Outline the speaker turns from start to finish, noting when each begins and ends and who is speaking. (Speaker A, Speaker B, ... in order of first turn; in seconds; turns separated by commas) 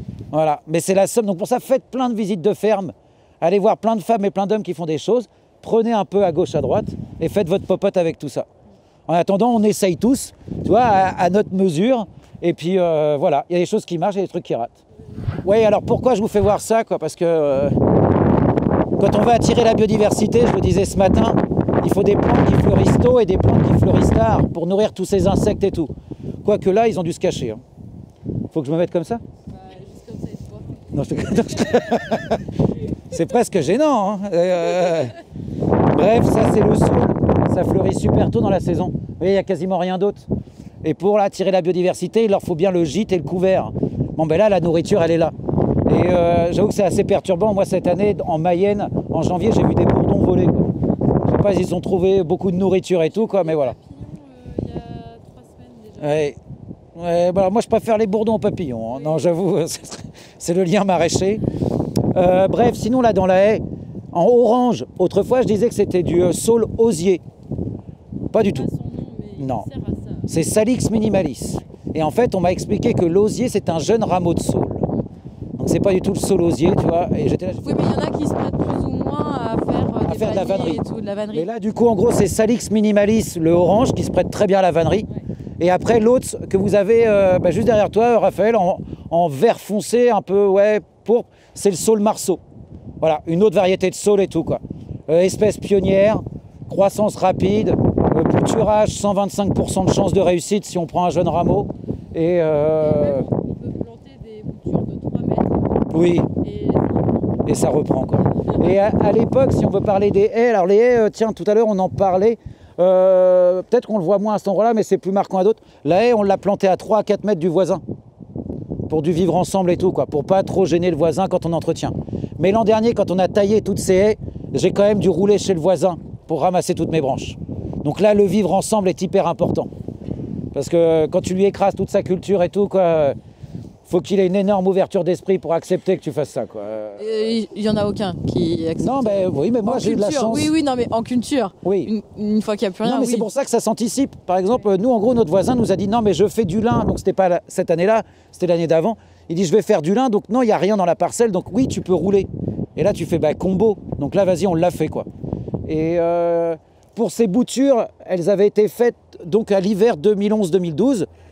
Speaker A: 0.3-8.5, Speaker A: 9.1-14.8, Speaker A: 15.4-17.8, Speaker A: 19.0-25.9, Speaker A: 26.4-27.6, Speaker A: 28.5-29.2, Speaker B: 29.5-32.2, Speaker A: 30.9-32.4, Speaker A: 33.1-35.2, Speaker A: 35.9-40.3, Speaker A: 40.8-45.3, Speaker A: 45.9-50.7, Speaker A: 51.2-53.7, Speaker B: 53.1-56.2, Speaker A: 56.0-56.4, Speaker A: 56.9-61.4, Speaker B: 58.9-59.3, Speaker A: 62.1-67.2, Speaker A: 68.3-68.7, Speaker B: 68.3-70.3, Speaker A: 69.4-69.7, Speaker A: 70.3-74.8, Speaker A: 75.6-77.9, Speaker B: 77.6-81.5, Speaker A: 80.0-80.8, Speaker A: 81.3-85.1, Speaker A: 85.6-92.4, Speaker A: 93.0-103.3, Speaker B: 102.8-105.6, Speaker A: 105.9-106.3, Speaker B: 106.4-107.1, Speaker A: 107.4-117.8, Speaker B: 108.3-108.6, Speaker A: 118.9-129.7, Speaker A: 130.5-133.2, Speaker A: 133.9-137.2, Speaker B: 137.0-143.3, Speaker A: 138.8-140.5, Speaker A: 141.6-141.9, Speaker A: 142.8-155.1, Speaker A: 155.6-161.1